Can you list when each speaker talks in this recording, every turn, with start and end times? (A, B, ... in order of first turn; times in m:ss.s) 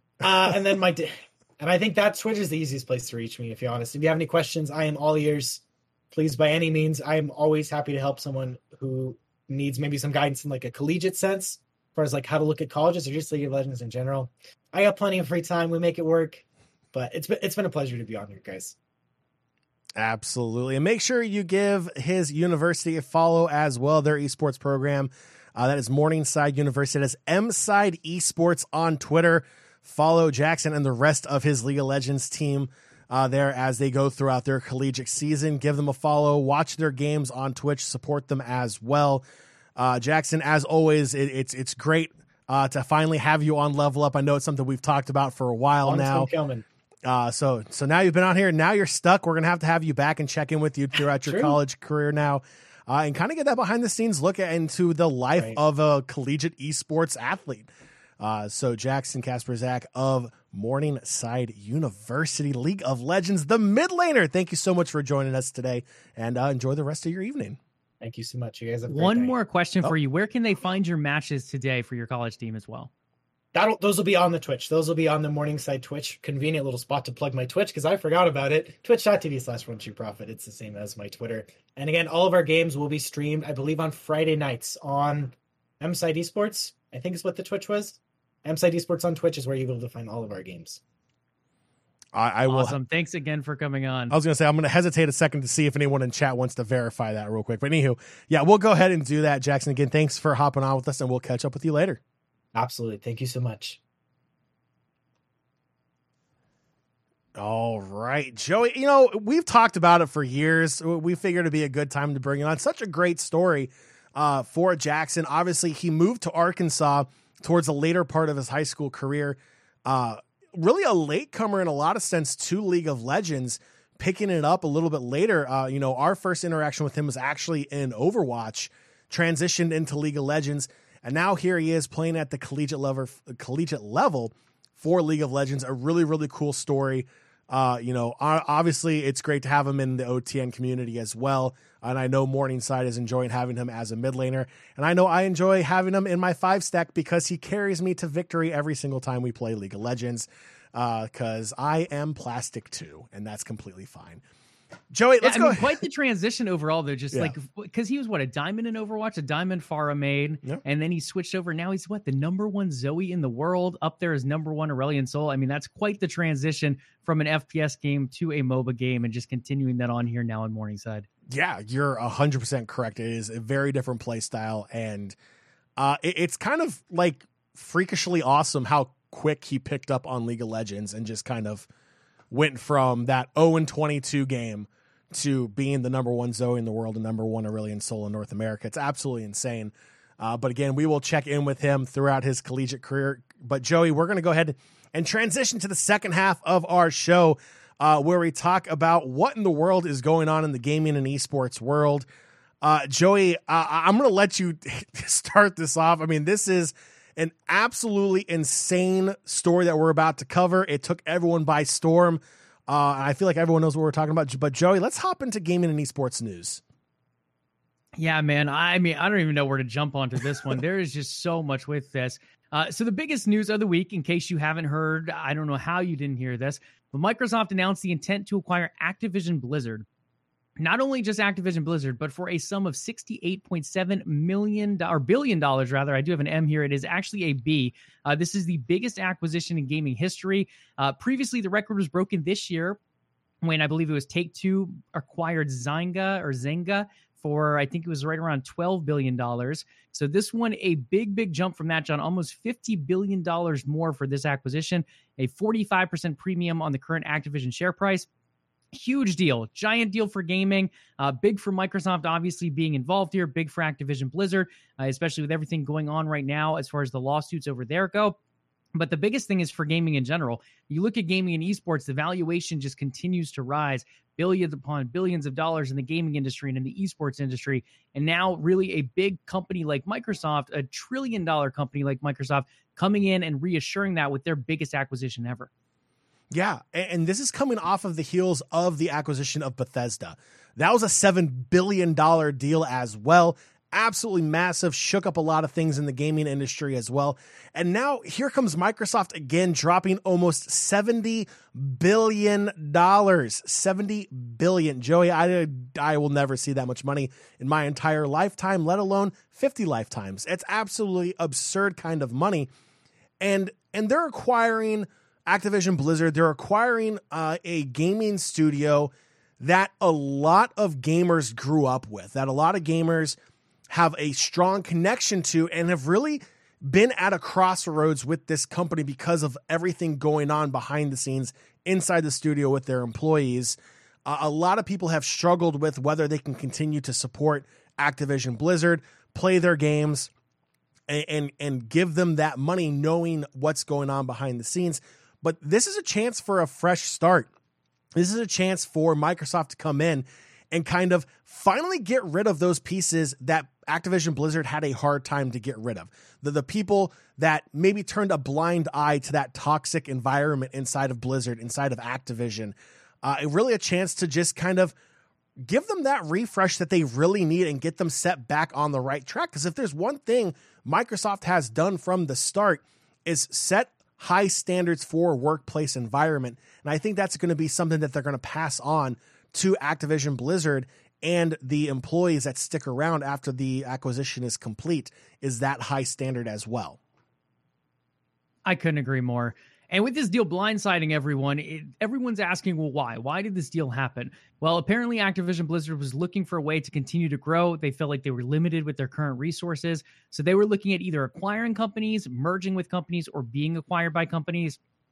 0:00.2-0:18.8 A
0:20.0-0:39.2 B
0:39.8-0:46.3 B
0:45.8-0:46.6 A
0:47.0-0:57.7 B
0:51.2-0:51.6 A
0:58.2-1:07.6 B
1:08.0-1:09.3 A
1:08.9-1:12.9 C
1:13.5-1:30.8 A
1:32.1-1:32.8 B
1:32.5-1:34.1 C
1:34.1-1:42.0 B
1:42.5-1:43.8 A
1:47.4-2:34.2 B
2:34.9-2:35.8 B
2:35.2-2:51.1 C
2:51.3-2:55.2 B
2:55.8-3:01.7 B
3:02.3-3:22.1 B
3:22.6-3:36.6 B
3:38.0-3:49.8 C
3:50.6-4:02.8 C
4:03.4-4:18.1 C
4:18.7-4:28.2 C
4:28.7-4:45.5 C
4:46.3-5:12.5 B
5:13.2-5:23.2 B
5:23.7-5:40.1 B
5:40.9-5:47.3 B
5:48.0-6:04.7 B
6:05.4-6:26.8 B
6:28.4-6:44.6 C